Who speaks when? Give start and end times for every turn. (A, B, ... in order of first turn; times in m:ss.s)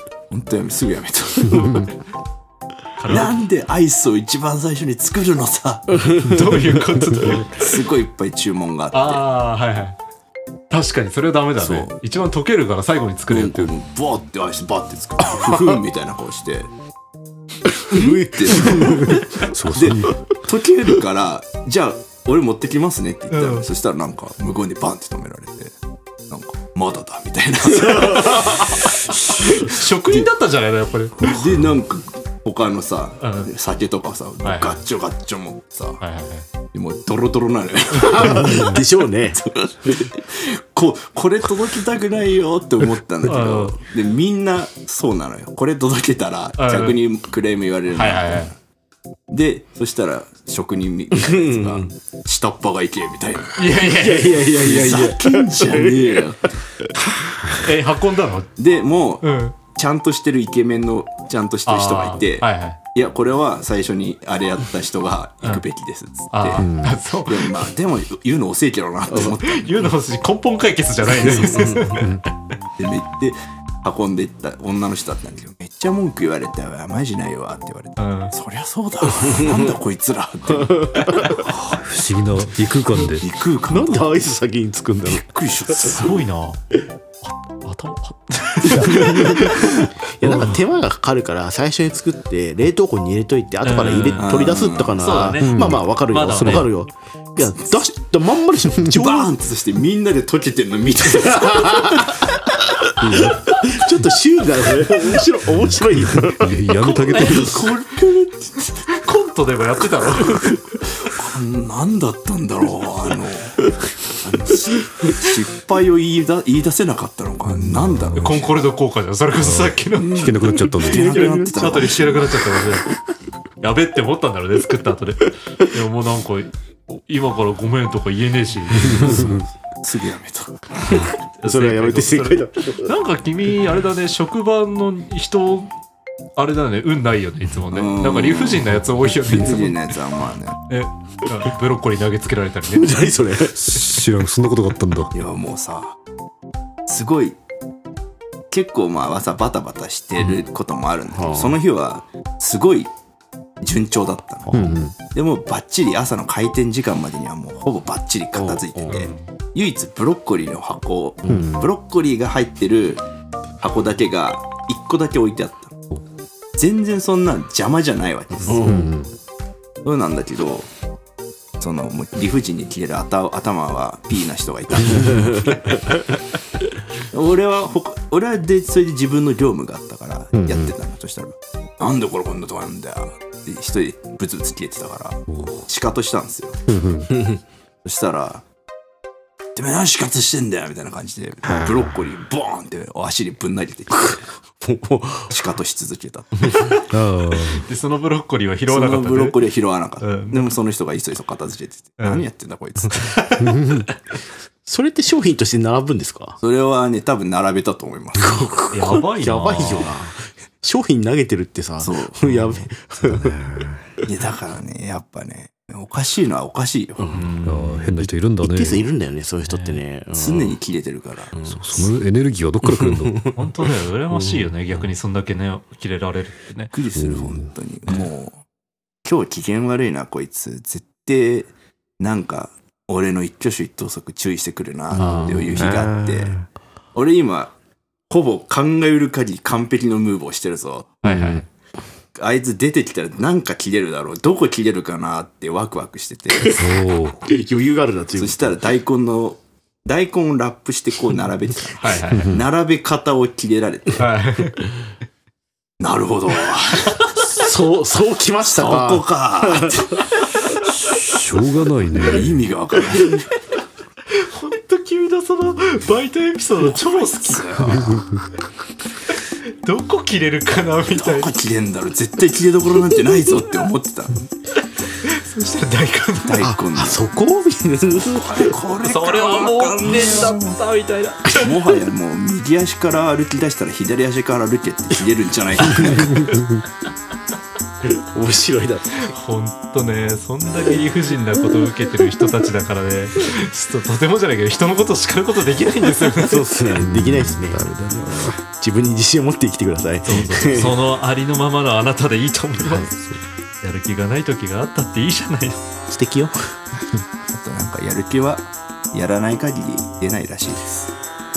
0:00.3-0:01.9 A
0:01.5-0:01.9 B
0:03.0-0:03.4 C
0:03.1-0:06.1 A
0:05.9-0:06.8 D
0:06.2-0:07.8 C
0:07.4-0:09.2 A
0:08.9-0:10.0 C
0:10.7-0:13.7 C
0:11.6-0:12.0 A
0:13.3-0:16.7 A
0:15.3-0:15.8 D
0:17.7-0:19.1 D
0:17.9-0:25.7 A
0:19.0-0:20.2 B
0:23.3-0:23.7 C
0:26.3-0:30.3 A
0:27.7-0:28.6 D
0:27.8-0:31.4 C
0:31.2-0:36.0 A
0:31.4-0:31.7 B
0:33.2-0:33.5 C
0:34.4-0:34.8 C
0:36.0-0:36.5 C
0:36.7-0:48.6 A
0:38.0-0:38.8 C
0:38.0-0:39.4 D
0:43.2-0:43.8 C
0:46.6-0:47.0 C
0:47.9-0:48.5 C
0:49.3-0:57.0 A
0:51.1-0:51.9 D
0:53.6-0:55.1 C
0:53.8-0:56.3 D
0:57.4-0:58.5 C
0:58.6-1:06.7 A
0:59.2-0:59.6 C
1:01.7-1:02.8 C
1:06.3-1:07.6 C
1:06.6-1:07.0 B
1:07.3-1:09.9 A
1:09.3-1:12.1 C
1:11.2-1:12.0 D
1:11.8-1:12.2 B
1:12.8-1:21.2 A
1:18.0-1:18.3 C
1:19.1-1:19.8 D
1:20.5-1:21.4 D
1:21.4-1:23.3 B
1:23.0-1:24.2 A
1:23.7-1:25.3 D
1:25.0-1:26.2 A
1:25.8-1:26.6 C
1:27.2-1:30.6 C
1:28.6-1:39.3 D
1:33.6-1:36.7 C
1:34.2-1:35.0 A
1:35.4-1:35.8 B
1:36.4-1:36.7 B
1:38.8-1:42.4 A
1:41.1-1:42.4 D
1:43.0-1:43.6 B
1:43.0-1:46.9 D
1:46.0-1:47.6 B
1:46.8-1:47.6 C
1:47.1-1:48.8 A
1:48.9-1:50.8 C
1:51.0-1:58.5 A
1:57.5-1:58.4 B
1:58.2-2:02.9 C
1:59.4-2:01.3 B
2:00.0-2:02.7 A
2:00.9-2:01.8 D
2:03.6-2:09.4 C
2:08.8-2:09.4 B
2:09.8-2:11.1 A
2:10.9-2:13.0 D
2:11.4-2:15.7 C
2:16.4-2:19.8 C
2:17.7-2:20.6 A
2:20.7-2:23.1 C
2:22.7-2:23.6 D
2:23.5-2:25.1 B
2:25.1-2:26.0 A
2:26.9-2:27.4 A
2:28.5-2:32.9 A
2:31.1-2:31.6 D
2:33.6-2:43.0 A
2:34.5-2:34.8 D
2:34.5-2:34.9 B
2:38.4-2:39.1 D
2:38.9-2:39.3 C
2:41.2-2:41.7 D
2:43.6-2:45.8 A
2:46.6-2:48.8 A
2:48.4-2:49.0 D
2:48.6-2:49.1 B
2:49.8-2:50.7 A
2:51.6-2:55.8 A
2:54.8-2:55.9 D
2:57.1-3:06.6 A
3:00.4-3:00.7 B
3:05.3-3:05.7 B
3:06.7-3:07.2 B
3:07.1-3:07.4 D
3:07.8-3:08.4 A
3:09.6-3:14.2 A
3:13.9-3:15.3 D
3:15.3-3:16.6 A
3:16.4-3:16.7 D
3:16.5-3:16.8 C
3:16.9-3:17.7 B
3:17.4-3:19.4 C
3:18.7-3:23.1 A
3:20.0-3:20.6 C
3:22.0-3:22.3 C
3:22.8-3:23.6 C
3:23.4-3:23.9 B
3:24.7-3:26.4 D
3:26.4-3:28.5 A
3:28.2-3:33.4 D
3:28.7-3:29.9 C
3:31.8-3:32.7 A
3:33.1-3:33.8 B
3:34.0-3:37.2 A
3:37.0-3:40.6 D
3:37.1-3:37.9 C
3:37.4-3:38.8 B
3:39.5-3:39.8 C
3:40.1-3:41.3 A
3:41.3-3:41.9 D
3:41.5-3:43.3 B
3:42.7-3:43.4 D
3:43.4-3:46.7 C
3:44.1-3:44.5 D
3:46.7-3:48.4 A
3:47.0-3:47.5 B
3:49.0-3:56.4 A
3:54.9-3:56.3 D
3:54.9-3:55.7 C
3:56.9-3:57.5 A
3:58.1-4:01.0 A
4:01.0-4:01.4 C
4:01.0-4:01.4 B
4:02.2-4:06.6 A
4:06.4-4:06.7 D
4:06.5-4:07.3 B
4:07.3-4:08.6 D
4:08.1-4:14.1 A
4:11.8-4:12.3 C
4:12.1-4:12.5 B
4:14.0-4:14.7 C
4:15.8-4:17.2 A
4:17.2-4:20.0 D
4:18.5-4:20.0 A
4:20.8-4:22.4 B
4:22.0-4:23.3 A
4:24.1-4:27.6 C
4:27.1-4:28.0 A
4:29.5-4:31.3 C
4:30.9-4:34.3 A
4:34.9-4:36.5 C
4:36.2-4:37.0 A
4:36.4-4:38.6 D
4:38.0-4:40.6 A
4:38.8-4:41.5 C
4:41.3-4:46.2 A
4:45.7-4:46.2 D
4:45.8-4:46.4 C
4:46.2-4:46.6 B
4:47.8-4:49.1 D
4:49.0-4:56.4 C
4:56.1-5:00.8 D
4:56.8-4:58.4 B
5:00.0-5:02.9 C
5:02.6-5:02.9 D
5:02.9-5:03.2 B
5:03.6-5:05.6 C
5:05.9-5:06.6 D
5:07.3-5:10.9 A